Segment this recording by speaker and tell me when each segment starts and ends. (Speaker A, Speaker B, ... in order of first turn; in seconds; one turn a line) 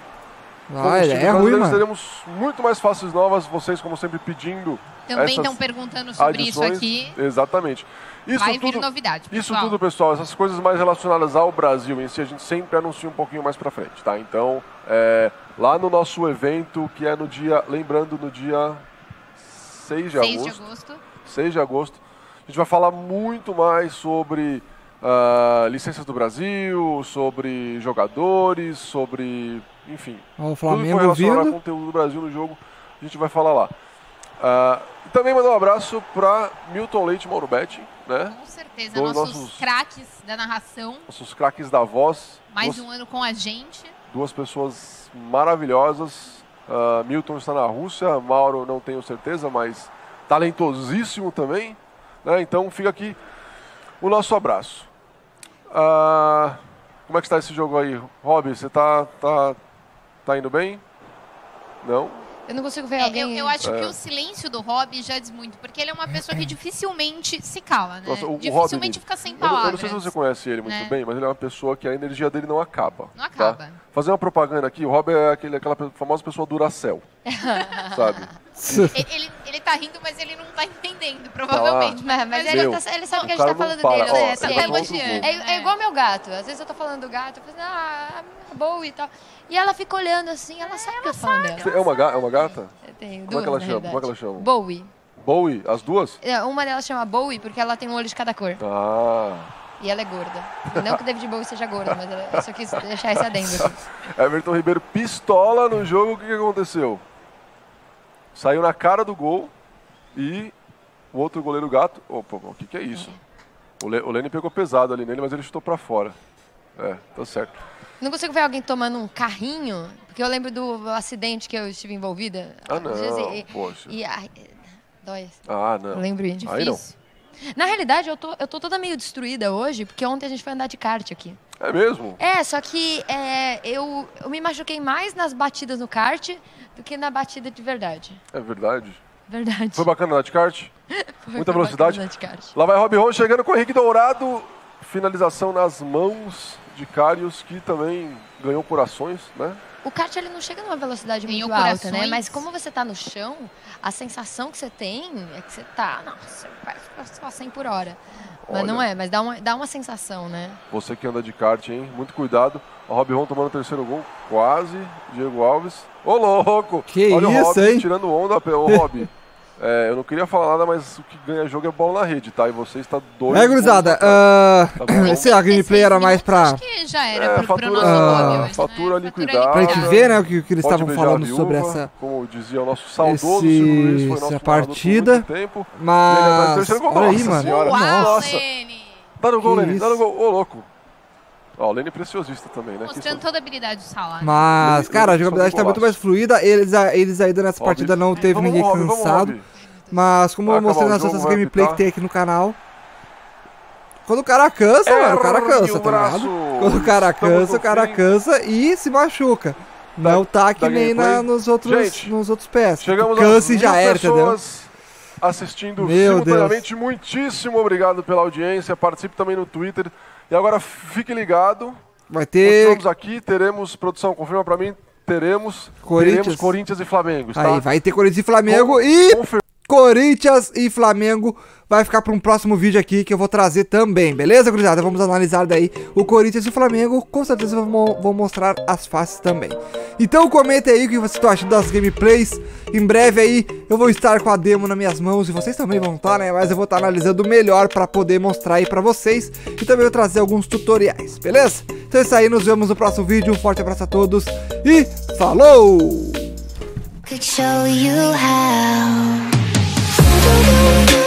Speaker A: 0.7-1.8
Speaker B: 0.8-5.6
Speaker C: 5.1-7.2
Speaker B: 6.2-18.9
Speaker C: 8.3-9.8
Speaker B: 19.4-20.6
Speaker C: 20.1-21.1
Speaker B: 21.2-33.7
Speaker A: 30.4-31.6
Speaker B: 34.4-38.4
Speaker C: 38.3-41.1
Speaker B: 38.9-39.7
Speaker B: 41.1-42.9
Speaker C: 42.5-43.9
Speaker B: 44.1-53.2
Speaker B: 54.0-54.9
Speaker B: 55.7-59.6
Speaker B: 60.3-60.8
Speaker B: 61.8-62.2
Speaker D: 62.5-63.6
Speaker C: 63.0-71.0
Speaker B: 63.6-64.0
Speaker B: 68.0-77.1
Speaker C: 73.2-73.8
Speaker D: 77.3-78.2
Speaker C: 77.5-77.9
Speaker B: 77.9-78.9
Speaker A: 78.6-79.0
Speaker C: 78.7-83.3
Speaker B: 81.5-82.0
Speaker D: 82.0-91.8
Speaker B: 82.5-85.3
Speaker C: 84.0-85.7
Speaker C: 90.6-92.5
Speaker B: 91.6-92.7
Speaker D: 92.8-94.9
Speaker B: 93.3-94.5
Speaker B: 95.2-96.2
Speaker D: 96.2-98.6
Speaker B: 98.6-99.5
Speaker D: 99.8-103.8
Speaker B: 101.9-107.0
Speaker B: 108.3-109.5
Speaker B: 110.2-110.5
Speaker B: 111.1-113.2
Speaker B: 113.8-116.2
Speaker B: 116.8-117.6
Speaker D: 118.0-126.8
Speaker B: 122.7-124.0
Speaker B: 125.5-126.8
Speaker C: 126.4-126.9
Speaker D: 127.5-131.4
Speaker B: 131.6-132.2
Speaker D: 132.2-138.2
Speaker B: 138.3-139.0
Speaker D: 139.3-139.9
Speaker B: 139.8-140.7
Speaker D: 140.9-142.6
Speaker B: 141.4-149.6
Speaker D: 149.8-160.6
Speaker C: 151.3-152.4
Speaker B: 158.5-158.8
Speaker B: 160.7-175.4
Speaker A: 166.9-167.9
Speaker A: 168.7-169.0
Speaker A: 173.3-176.6
Speaker C: 174.9-180.1
Speaker B: 177.1-188.4
Speaker A: 177.8-178.6
Speaker A: 179.5-181.9
Speaker A: 183.0-188.2
Speaker C: 187.3-189.1
Speaker B: 189.2-190.7
Speaker A: 189.4-190.0
Speaker B: 191.6-193.2
Speaker C: 192.8-194.5
Speaker A: 194.2-199.3
Speaker B: 194.6-196.0
Speaker B: 197.6-199.4
Speaker D: 199.6-200.2
Speaker A: 199.9-202.6
Speaker B: 200.5-201.8
Speaker A: 204.1-214.4
Speaker B: 204.8-208.0
Speaker B: 210.0-212.2
Speaker B: 212.8-221.8
Speaker A: 215.8-216.6
Speaker A: 222.1-222.8
Speaker B: 222.4-227.7
Speaker A: 225.8-226.6
Speaker A: 227.3-256.3
Speaker B: 228.5-229.4
Speaker D: 257.1-259.3